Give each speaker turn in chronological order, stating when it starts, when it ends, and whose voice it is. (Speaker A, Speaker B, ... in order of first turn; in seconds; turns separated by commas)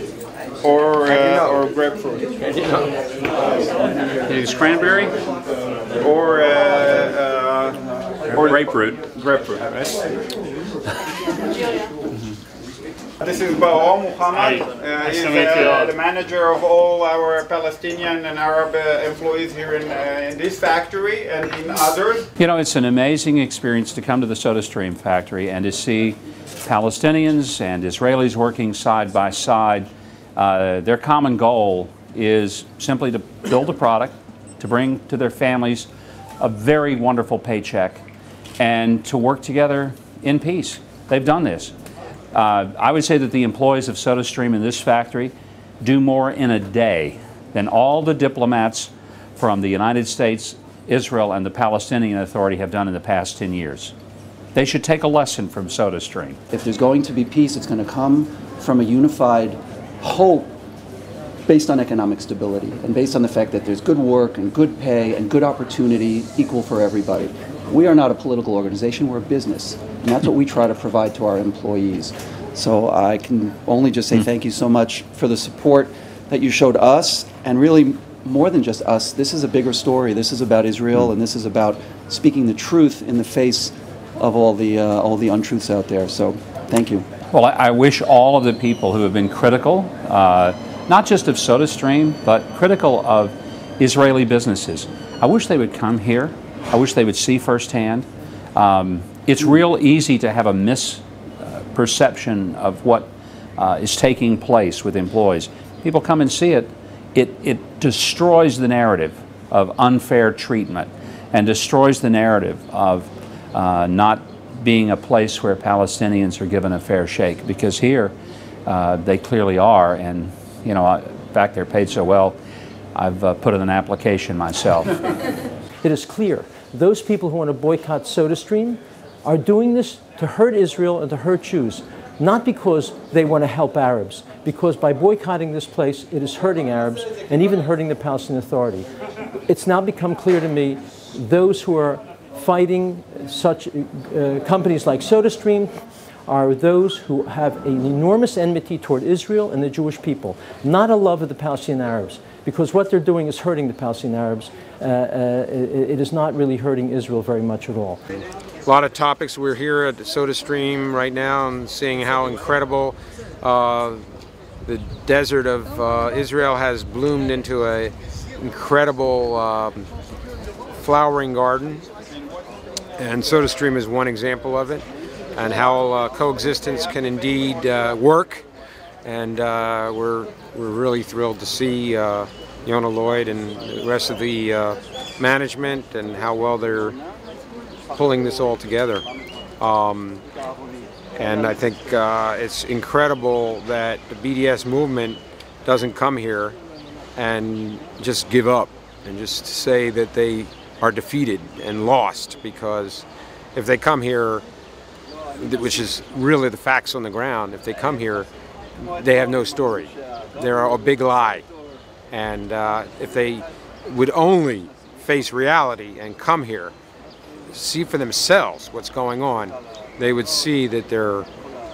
Speaker A: 0.6-2.4, Speaker B: 4.2-5.1, Speaker A: 6.0-7.8, Speaker A: 8.3-8.6, Speaker B: 8.4-9.8, Speaker A: 13.2-22.3, Speaker B: 22.4-35.9, Speaker B: 36.4-38.0, Speaker B: 38.6-41.7, Speaker B: 42.3-53.9, Speaker B: 54.5-56.4, Speaker C: 56.5-60.5, Speaker C: 61.5-87.1, Speaker B: 87.3-118.1, Speaker B: 118.7-122.4, Speaker B: 123.0-125.0, Speaker D: 125.8-138.9, Speaker D: 139.5-145.7, Speaker D: 146.3-158.0, Speaker E: 158.6-164.1, Speaker E: 164.6-169.9, Speaker E: 170.8-171.9, Speaker E: 173.0-178.4, Speaker E: 179.0-186.9, Speaker E: 187.9-189.0, Speaker E: 189.6-190.2, Speaker E: 191.1-196.6, Speaker E: 197.2-204.4, Speaker E: 205.4-208.3, Speaker E: 208.9-211.4, Speaker E: 212.1-216.7, Speaker E: 217.5-221.3